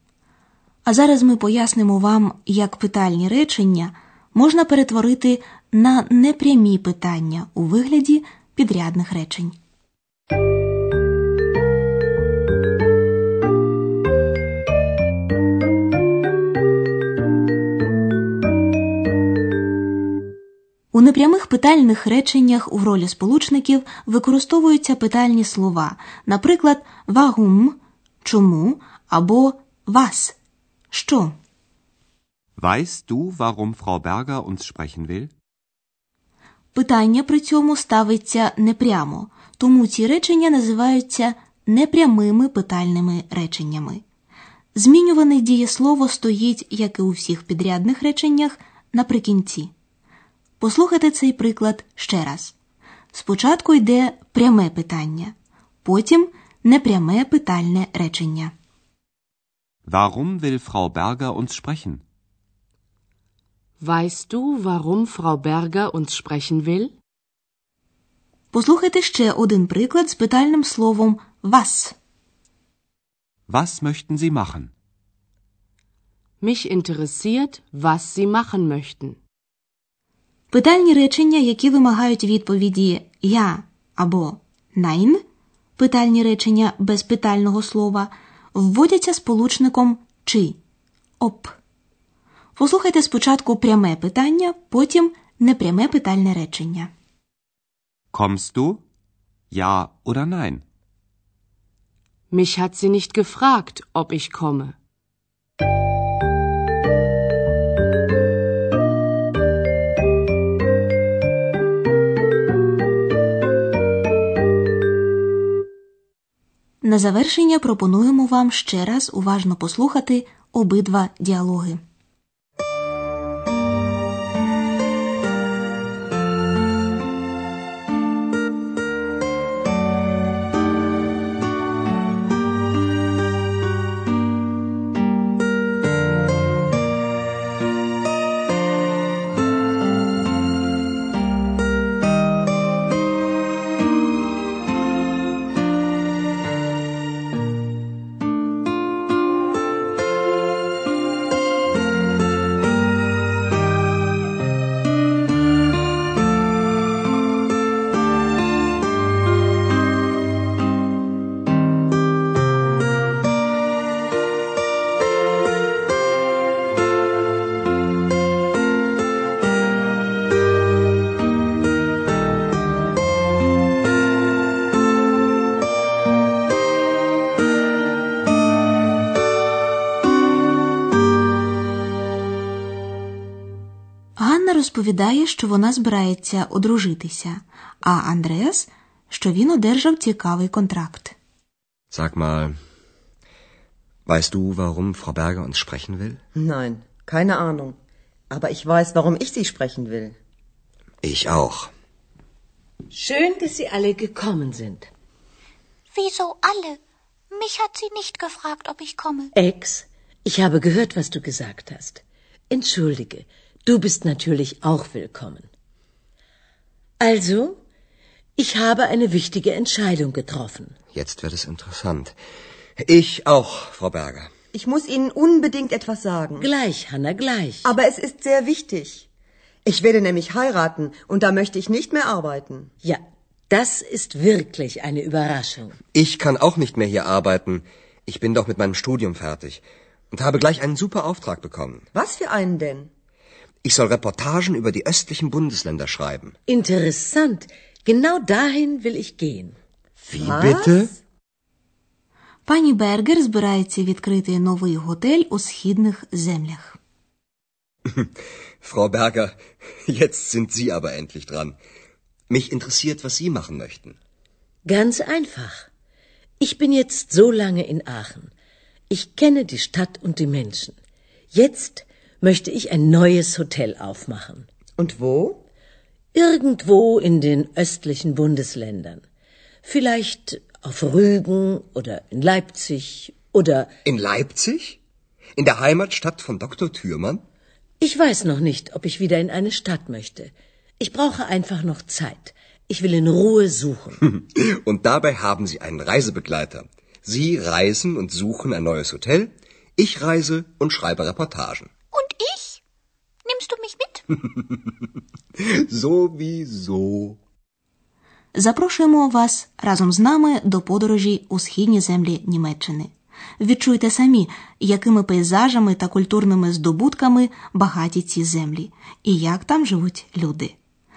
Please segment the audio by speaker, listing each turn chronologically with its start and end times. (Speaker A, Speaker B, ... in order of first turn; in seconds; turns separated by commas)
Speaker A: 0.8-9.6, Speaker A: 20.9-30.4, Speaker A: 30.9-31.3, Speaker B: 32.6-35.3, Speaker A: 36.7-44.0, Speaker A: 44.7-49.7, Speaker A: 50.6-52.5, Speaker A: 53.1-58.5, Speaker B: 59.9-62.0, Speaker C: 63.8-66.9, Speaker A: 68.5-71.9, Speaker B: 73.5-74.7, Speaker C: 76.4-79.2, Speaker A: 80.5-85.2, Speaker A: 85.8-90.6, Speaker A: 91.2-91.6, Speaker A: 92.5-96.9, Speaker B: 98.1-98.8, Speaker B: 99.5-100.6, Speaker C: 102.3-104.8, Speaker A: 116.8-121.8, Speaker A: 184.2-191.1, Speaker D: 191.9-192.6, Speaker D: 194.1-196.2, Speaker E: 196.3-197.8, Speaker E: 198.3-200.1, Speaker D: 201.0-201.7, Speaker F: 202.9-204.9, Speaker G: 205.9-206.8, Speaker G: 207.3-209.3, Speaker F: 209.3-215.5, Speaker F: 217.0-217.6, Speaker F: 218.4-220.8, Speaker D: 220.9-222.2, Speaker D: 222.8-224.3, Speaker E: 224.5-226.5, Speaker F: 226.4-227.7, Speaker E: 227.6-229.1, Speaker E: 229.6-232.7, Speaker F: 232.8-235.8, Speaker D: 235.9-241.9, Speaker E: 241.9-242.9, Speaker D: 243.6-246.3, Speaker F: 246.5-249.6, Speaker D: 250.1-250.9, Speaker E: 250.1-250.8, Speaker A: 252.5-256.8, Speaker D: 257.9-261.6, Speaker D: 262.3-264.0, Speaker F: 264.6-265.7, Speaker F: 266.4-268.3, Speaker F: 268.9-270.8, Speaker F: 271.3-274.5, Speaker E: 274.8-275.4, Speaker F: 276.1-279.0, Speaker F: 279.6-283.7, Speaker D: 283.8-284.8, Speaker D: 285.4-287.2, Speaker F: 287.8-294.0, Speaker D: 294.1-301.7, Speaker G: 301.9-302.6, Speaker G: 303.2-304.0, Speaker D: 305.4-307.2, Speaker A: 308.3-320.5